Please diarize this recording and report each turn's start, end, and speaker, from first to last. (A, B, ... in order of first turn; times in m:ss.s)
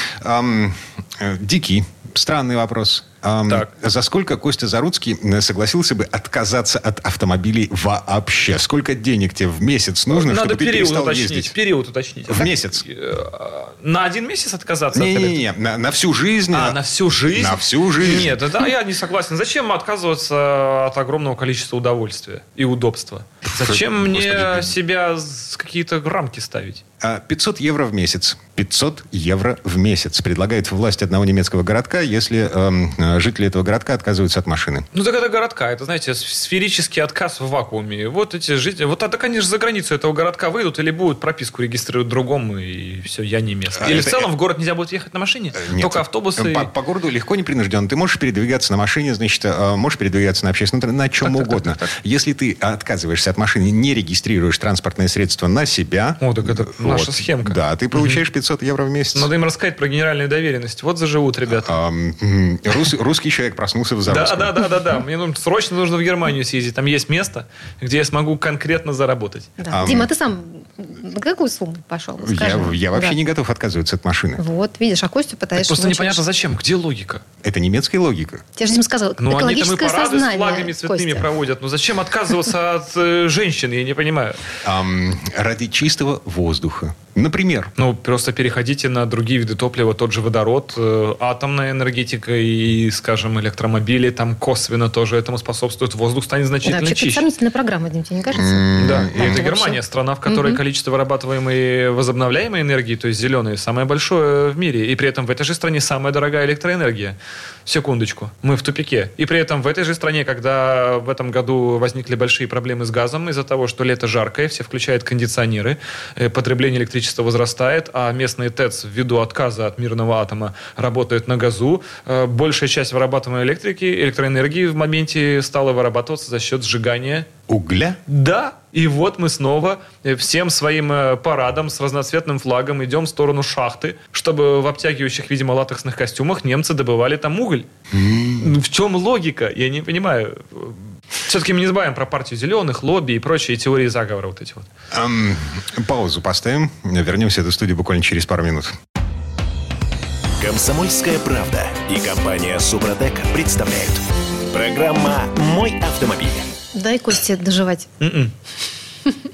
0:00.2-0:11.5 A
0:10.1-0:15.4 B
0:12.3-0:12.8 A
0:14.9-0:18.4 A
0:16.5-0:26.8 B
0:23.4-0:24.7 A
0:27.0-0:34.9 A
0:34.9-0:46.7 B
0:43.8-0:44.3 A
0:45.6-0:59.3 A
0:51.2-0:51.6 B
0:56.2-0:58.2 B
0:59.1-1:01.8 B
1:01.6-1:04.5 A
1:04.1-1:09.6 B
1:09.6-1:13.2 C
1:09.7-1:10.1 A
1:12.2-1:14.4 A
1:14.4-1:16.2 C
1:15.6-1:17.2 B
1:17.4-1:18.4 A
1:18.6-1:21.3 C
1:19.2-1:24.4 B
1:24.6-1:27.7 A
1:27.8-1:37.2 B
1:36.6-1:40.6 C
1:38.3-1:39.4 A
1:38.7-2:07.3 B
2:07.5-2:08.0 A
2:08.0-2:17.7 B
2:17.9-2:18.5 A
2:18.4-2:24.7 B
2:24.9-2:28.7 A
2:30.4-2:36.5 D
2:36.7-2:37.9 C
2:38.0-2:38.3 B